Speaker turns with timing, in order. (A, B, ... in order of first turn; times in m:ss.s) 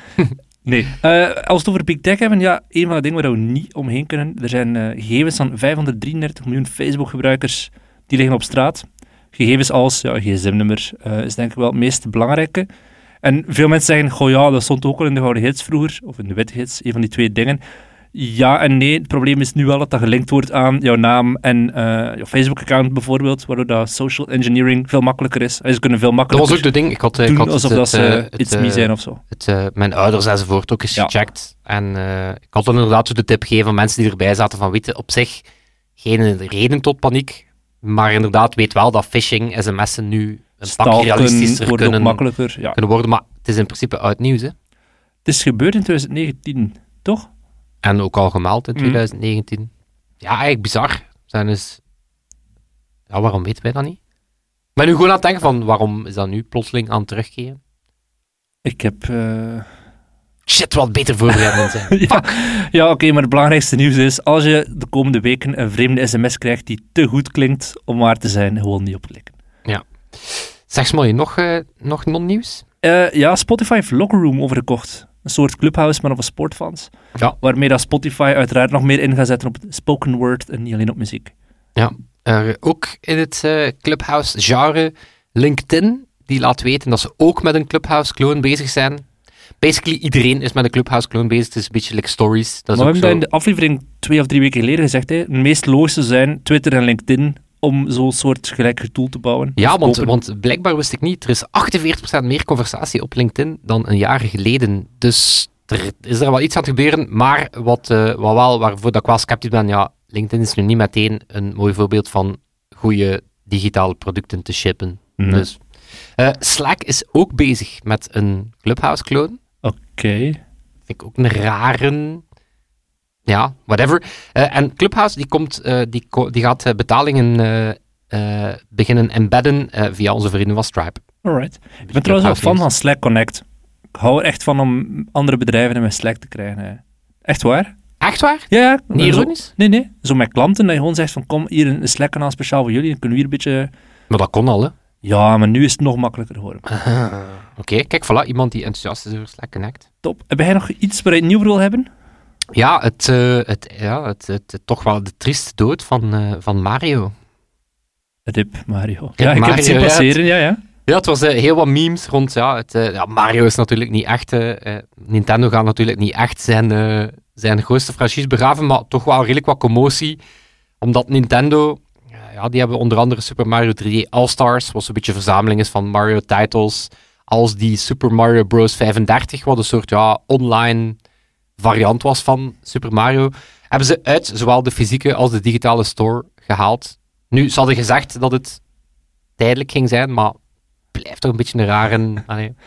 0:00.2-0:00.8 A
0:00.6-0:12.7 B
0:13.2-0:17.6 B
0:18.1-0:26.7 B
0:26.3-0:35.4 A
0:27.2-0:29.2 B
0:36.0-0:42.2 A
0:40.6-0:42.8 B
0:42.7-0:44.5 A
0:45.2-0:47.3 B
0:47.8-0:49.7 A
0:50.2-0:51.8 A
0:53.1-0:54.0 A
0:54.8-0:57.6 A
0:58.6-0:59.7 B
1:00.5-1:02.3 A
1:01.3-1:09.3 B
1:09.6-1:12.6 A
1:12.8-1:16.9 B
1:17.4-1:21.3 B
1:21.8-1:29.0 A
1:29.6-1:33.2 A
1:32.7-1:40.1 B
1:39.6-1:55.6 A
1:55.2-1:55.4 B
1:56.2-1:59.4 A
1:59.6-2:00.4 B
2:00.9-2:02.2 A
2:03.3-2:11.0 A
2:11.2-2:13.4 B
2:11.8-2:12.6 A
2:13.9-2:17.8 B
2:18.0-2:19.5 A
2:18.5-2:23.7 B
2:24.1-2:24.7 A
2:25.0-2:26.6 B
2:26.7-2:29.8 A
2:30.0-2:31.9 B
2:32.5-2:37.1 A
2:38.3-2:40.6 B
2:39.2-2:40.2 A
2:40.9-2:50.2 A
2:50.8-3:01.0 A
3:01.6-3:08.6 A
3:09.4-3:10.4 A
3:10.9-3:12.6 A